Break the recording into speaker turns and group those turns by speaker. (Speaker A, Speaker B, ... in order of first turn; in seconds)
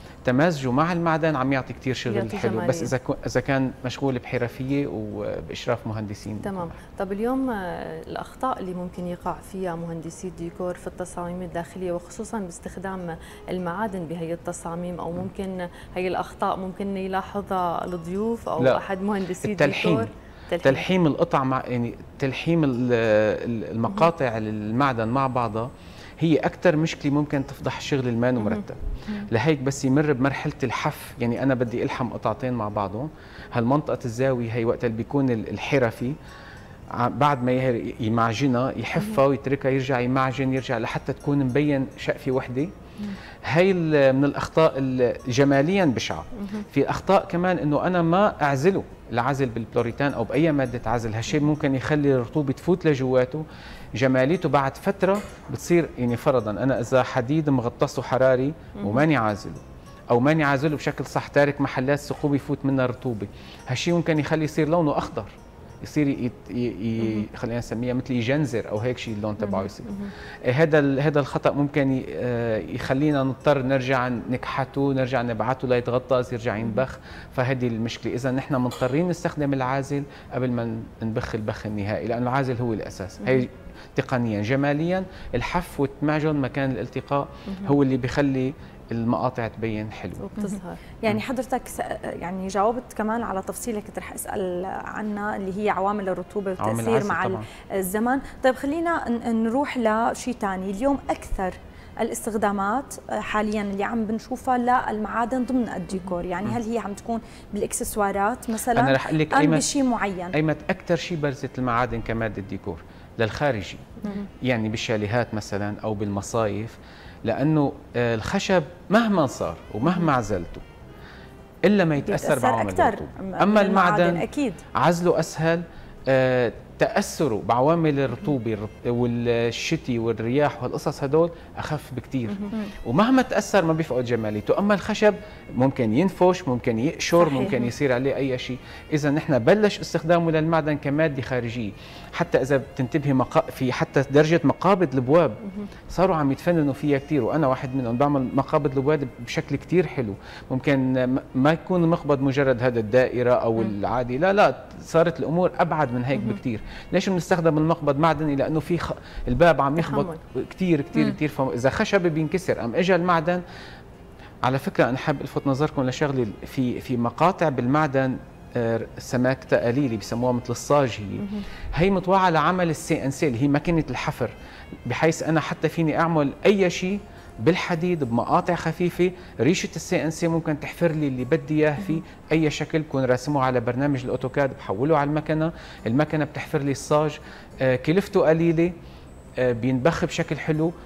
Speaker A: 0.2-6.8, 19.4-20.1, 20.6-36.1, 37.0-42.7, 43.5-53.4, 54.0-69.9, 70.5-90.3, 96.6-97.5, 108.7-109.7, 110.3-120.6, 121.6-124.2, 124.7-163.4, 164.4-174.3, 174.9-188.7, 189.4-190.7
Speaker B: 2.1-2.9, 6.4-20.9, 69.5-70.1, 90.2-90.8, 159.8-160.2
Speaker C: 90.4-110.3, 122.1-124.6